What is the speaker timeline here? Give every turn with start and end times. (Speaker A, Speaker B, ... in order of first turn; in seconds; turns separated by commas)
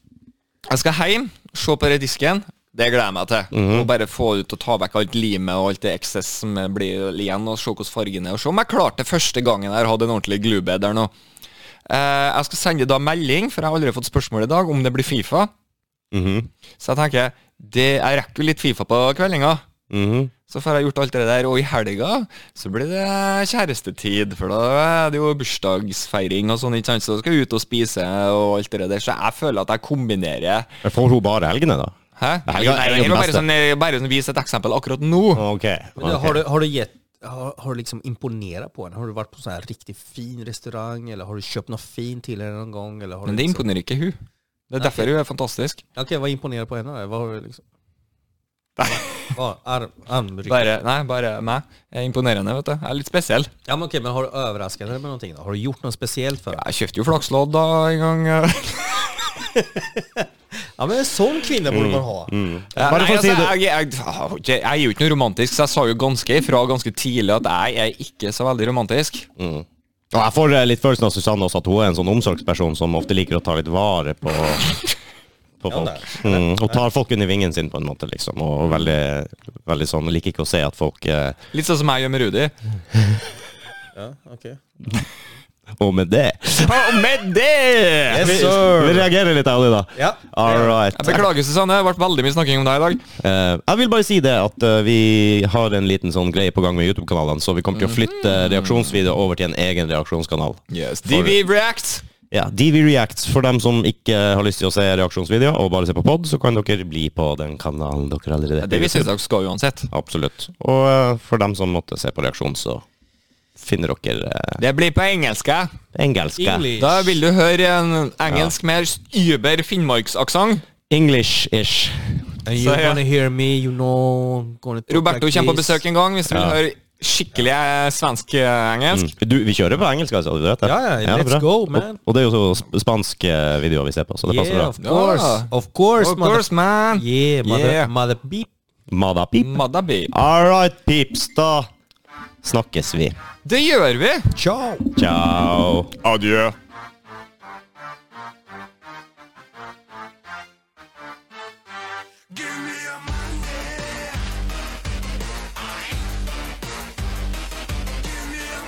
Speaker A: 0.7-11.1, Speaker B: 3.5-3.9, Speaker A: 11.9-15.5, Speaker B: 16.1-16.5, Speaker A: 16.8-19.6, Speaker B: 19.9-20.3, Speaker A: 20.5-30.7, Speaker B: 30.8-31.9, Speaker A: 32.2-35.5, Speaker B: 32.5-33.5, Speaker B: 35.4-36.4, Speaker C: 36.0-43.6, Speaker A: 43.3-44.2, Speaker A: 44.7-45.8, Speaker C: 44.8-45.1, Speaker C: 46.0-47.6, Speaker A: 48.8-49.3, Speaker C: 49.3-50.7, Speaker A: 50.5-53.5, Speaker C: 53.7-56.6, Speaker A: 56.5-59.4, Speaker C: 59.5-62.3, Speaker B: 61.7-63.6, Speaker A: 62.8-69.3, Speaker B: 69.4-74.8, Speaker B: 75.6-81.4, Speaker C: 75.7-76.8, Speaker A: 81.5-82.5, Speaker C: 84.0-84.6, Speaker B: 85.8-87.0, Speaker A: 86.6-88.5, Speaker C: 88.1-89.1, Speaker B: 88.2-91.3, Speaker C: 90.0-91.2, Speaker A: 90.9-93.0, Speaker B: 93.2-101.4, Speaker A: 97.8-99.0, Speaker A: 100.7-102.0, Speaker B: 102.3-109.1, Speaker A: 108.6-109.9, Speaker B: 109.9-112.8, Speaker B: 113.6-114.6, Speaker A: 114.6-115.7, Speaker B: 116.0-116.7, Speaker C: 116.4-117.2, Speaker A: 116.8-120.6, Speaker B: 118.3-118.5, Speaker B: 120.9-122.3, Speaker C: 122.5-125.8, Speaker A: 122.6-123.0, Speaker A: 124.9-129.1, Speaker B: 126.3-126.6, Speaker B: 128.9-134.7, Speaker C: 130.6-132.0, Speaker C: 134.2-138.5, Speaker A: 134.8-137.9, Speaker B: 138.9-141.7, Speaker A: 139.4-140.1, Speaker B: 142.4-143.2, Speaker A: 143.4-144.3, Speaker C: 144.3-144.9, Speaker B: 145.0-146.0, Speaker A: 146.0-146.6